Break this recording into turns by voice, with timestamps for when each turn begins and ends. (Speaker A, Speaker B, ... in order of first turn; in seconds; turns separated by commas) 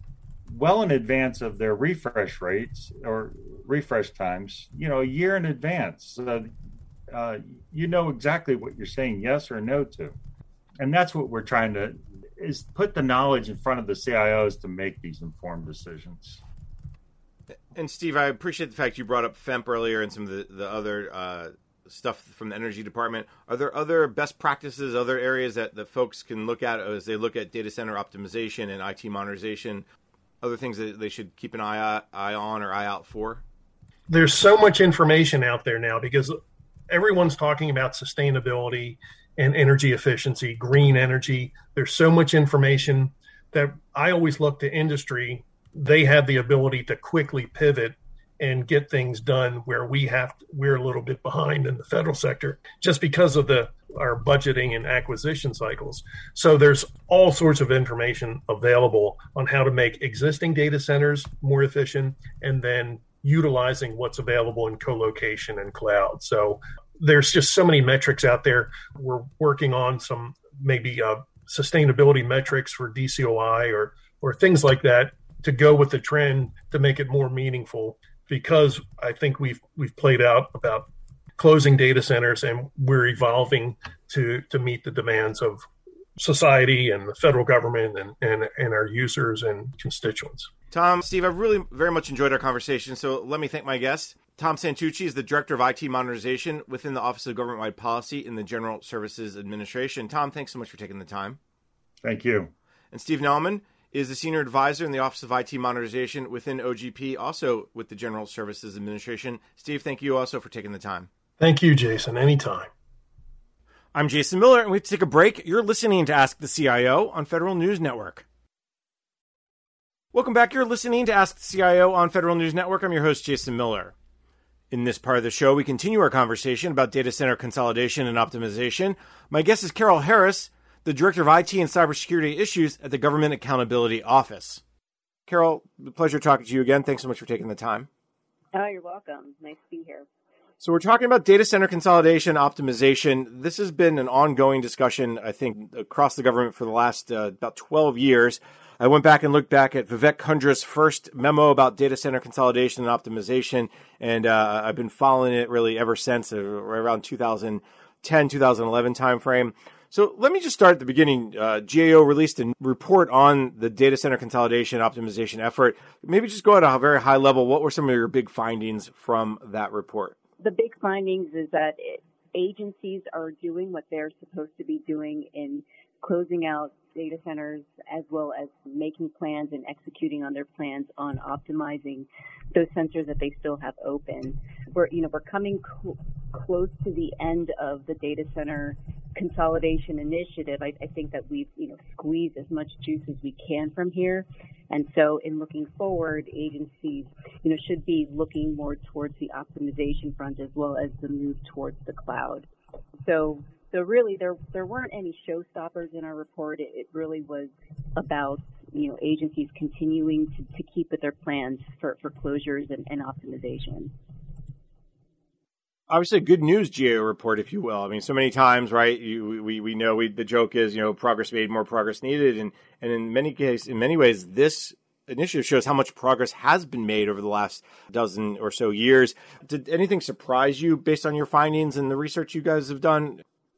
Speaker A: 0.5-6.5, Speaker A: 7.1-10.2, Speaker A: 10.8-16.4, Speaker B: 17.7-29.9, Speaker B: 30.4-33.4, Speaker C: 34.1-36.4, Speaker C: 36.9-85.6, Speaker C: 86.2-90.5, Speaker B: 90.7-101.4, Speaker A: 102.0-102.5, Speaker B: 102.9-111.1, Speaker C: 111.4-112.7, Speaker B: 113.9-118.2, Speaker B: 120.1-123.9, Speaker B: 124.7-134.6, Speaker B: 135.3-137.9, Speaker D: 138.5-140.1, Speaker B: 140.6-170.1, Speaker D: 170.4-202.5, Speaker D: 203.1-213.9, Speaker B: 215.9-233.2